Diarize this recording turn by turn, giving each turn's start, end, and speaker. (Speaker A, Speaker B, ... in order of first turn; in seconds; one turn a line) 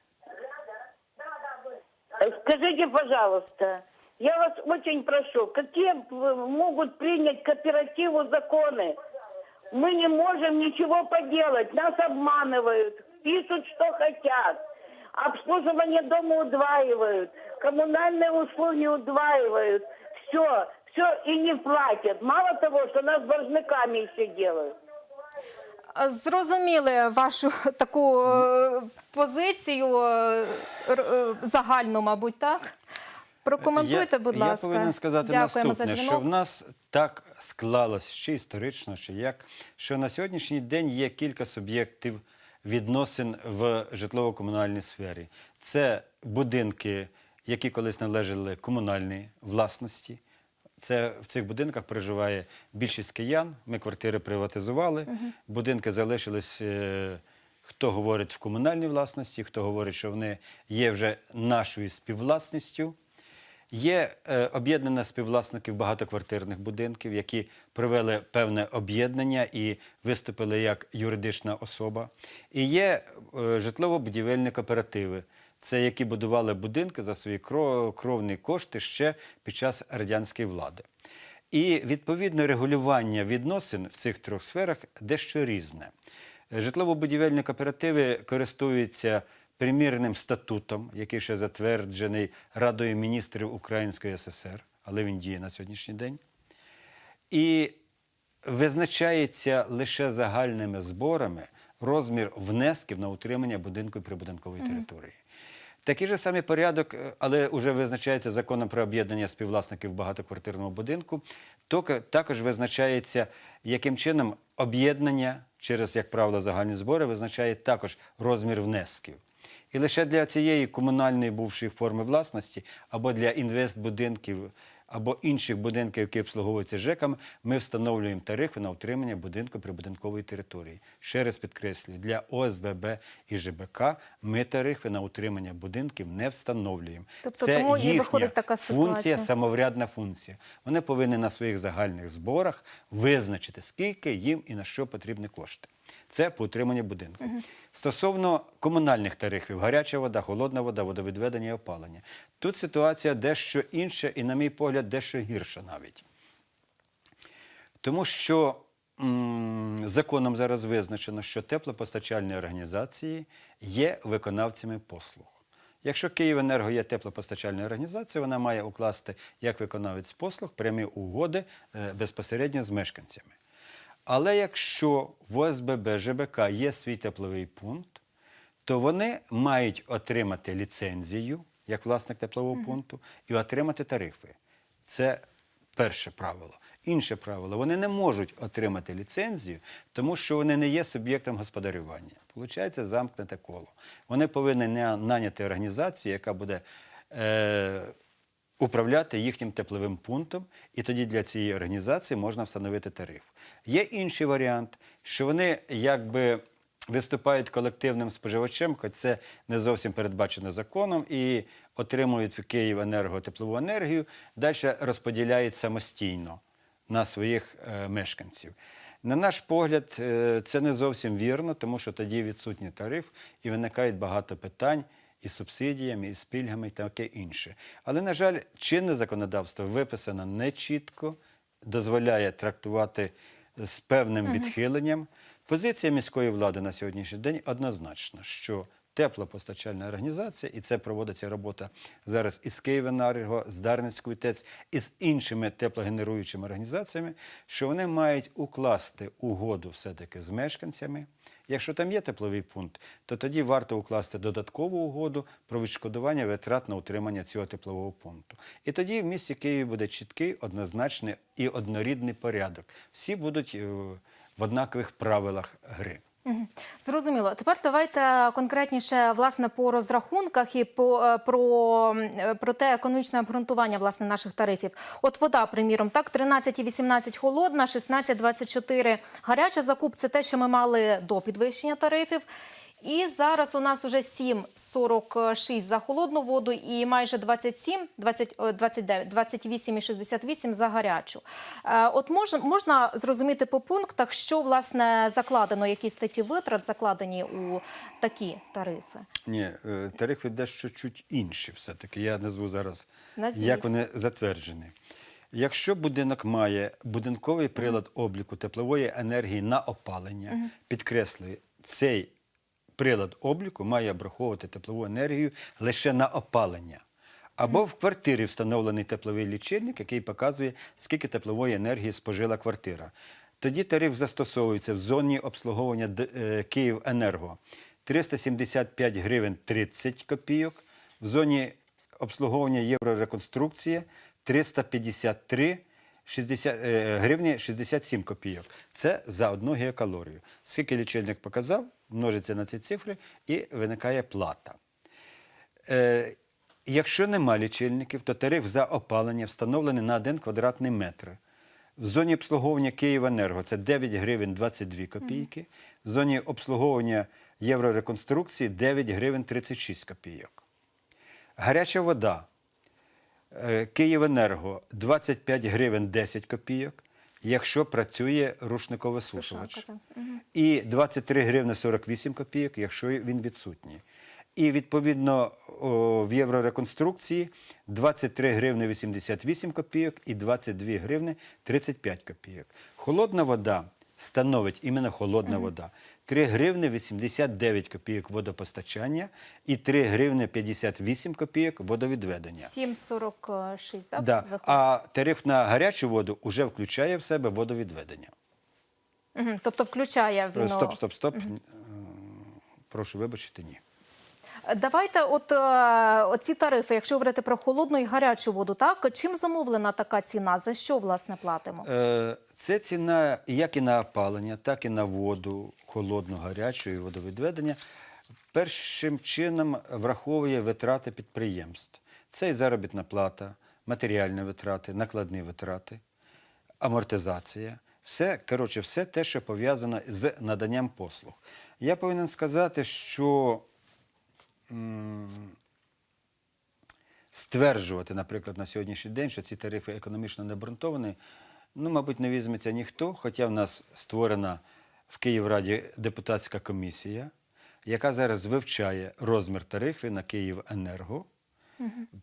Speaker A: 2.1-9.0
Speaker A: 9.7-14.6
Speaker A: 15.2-24.8
Speaker B: 25.9-32.7
Speaker B: 33.5-36.2
Speaker C: 33.6-50.2
Speaker C: 50.8-63.0
Speaker C: 63.7-80.9
Speaker C: 81.5-85.9
Speaker C: 86.5-96.2
Speaker C: 97.3-97.8
Speaker C: 98.4-105.2
Speaker C: 105.8-119.2
Speaker C: 119.7-156.1
Speaker B: 137.2-139.3
Speaker C: 157.8-173.3
Speaker C: 174.1-178.0
Speaker C: 178.7-185.2
Speaker C: 185.8-197.9
Speaker C: 198.6-266.0
Speaker B: 266.2-282.2
Speaker B: 282.8-299.1
Speaker C: 299.2-304.7
Speaker B: 303.2-303.7
Speaker C: 305.3-312.1
Speaker C: 312.8-316.8
Speaker C: 317.4-344.6
Speaker C: 345.7-351.2
Speaker C: 351.8-360.4
Speaker C: 361.4-362.3
Speaker C: 363.3-369.6
Speaker B: 369.0-370.2
Speaker C: 370.3-373.8
Speaker C: 374.4-392.5
Speaker B: 392.4-394.6
Speaker C: 394.0-398.1
Speaker B: 399.2-401.2
Speaker C: 400.3-403.6
Speaker B: 404.5-411.7
Speaker C: 411.6-417.6
Speaker C: 418.3-425.8
Speaker C: 426.6-433.4
Speaker C: 434.5-435.4
Speaker C: 437.1-441.0
Speaker C: 441.6-447.1
Speaker C: 447.6-451.1
Speaker B: 451.6-451.9